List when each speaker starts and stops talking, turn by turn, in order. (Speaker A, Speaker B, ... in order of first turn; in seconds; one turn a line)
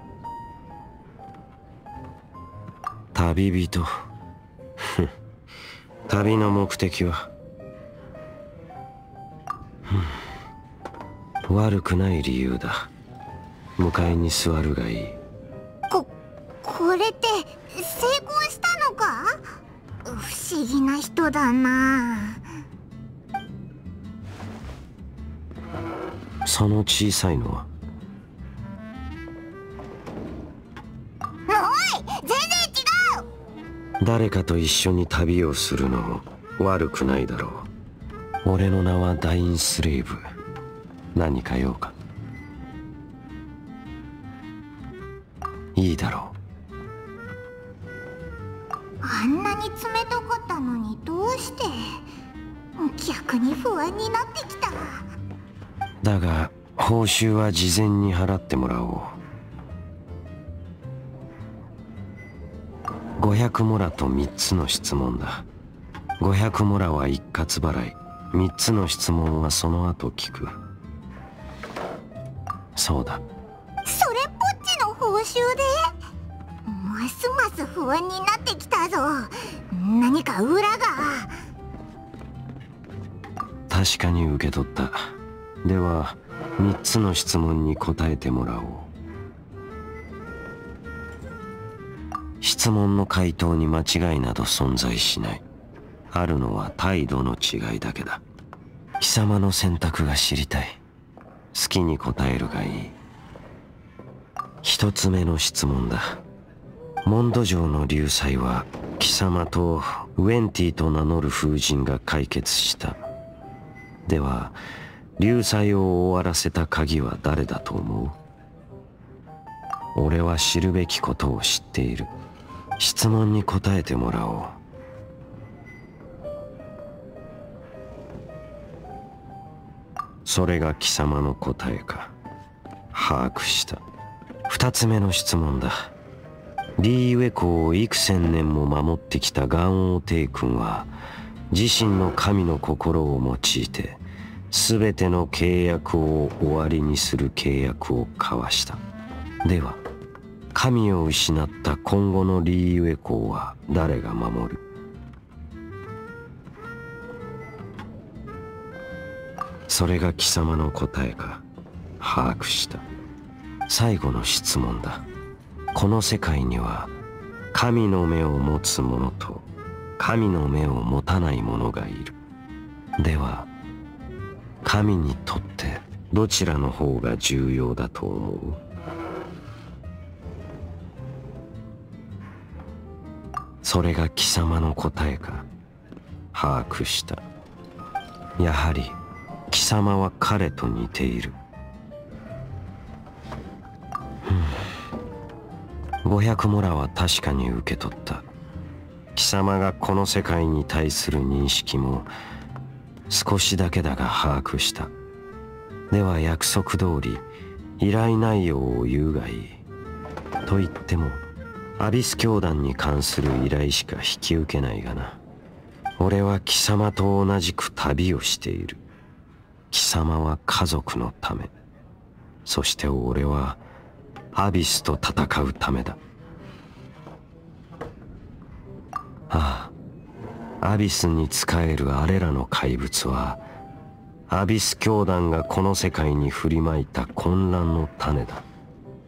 Speaker A: 3.1-3.9
Speaker A: 4.8-5.1
Speaker A: 6.1-7.3
Speaker A: 9.9-10.2
Speaker A: 11.4-12.9
Speaker A: 13.8-15.2
Speaker B: 16.6-19.4
Speaker B: 20.0-22.4
Speaker A: 26.4-27.7
Speaker B: 31.5-33.2
Speaker A: 34.0-37.7
Speaker A: 38.4-40.2
Speaker A: 41.1-41.9
Speaker A: 45.7-46.4
Speaker B: 49.0-52.0
Speaker B: 52.8-55.0
Speaker A: 56.0-59.2
Speaker A: 63.2-65.5
Speaker A: 66.2-70.5
Speaker A: 72.8-73.2
Speaker B: 73.8-75.9
Speaker B: 76.7-81.3
Speaker A: 83.7-88.9
Speaker A: 92.4-95.4
Speaker A: 96.1-98.2
Speaker A: 99.0-100.8
Speaker A: 101.5-102.9
Speaker A: 104.6-106.2
Speaker A: 107.0-113.0
Speaker A: 114.0-114.6
Speaker A: 115.2-118.2
Speaker A: 119.9-122.1
Speaker A: 122.8-124.6
Speaker A: 130.2-132.1
Speaker A: 132.9-133.8
Speaker A: 134.5-135.9
Speaker A: 136.8-140.9
Speaker A: 141.5-148.8
Speaker A: 149.4-149.8
Speaker A: 150.5-154.6
Speaker A: 159.7-161.4
Speaker A: 162.0-162.8
Speaker A: 163.7-165.0
Speaker A: 165.7-166.9
Speaker A: 167.5-169.4
Speaker A: 170.0-172.2
Speaker A: 173.0-173.5
Speaker A: 174.6-178.6
Speaker A: 183.6-185.5
Speaker A: 186.3-187.2
Speaker A: 188.4-189.0
Speaker A: 189.5-191.3
Speaker A: 194.2-194.6
Speaker A: 196.0-198.2
Speaker A: 199.1-202.1
Speaker A: 203.1-204.9
Speaker A: 205.9-207.2
Speaker A: 207.8-209.6
Speaker A: 210.4-211.2
Speaker A: 211.8-215.2
Speaker A: 216.0-218.8
Speaker A: 219.7-221.5
Speaker A: 222.4-223.6
Speaker A: 224.3-226.0
Speaker A: 229.3-229.7
Speaker A: 230.6-233.4
Speaker A: 234.3-238.4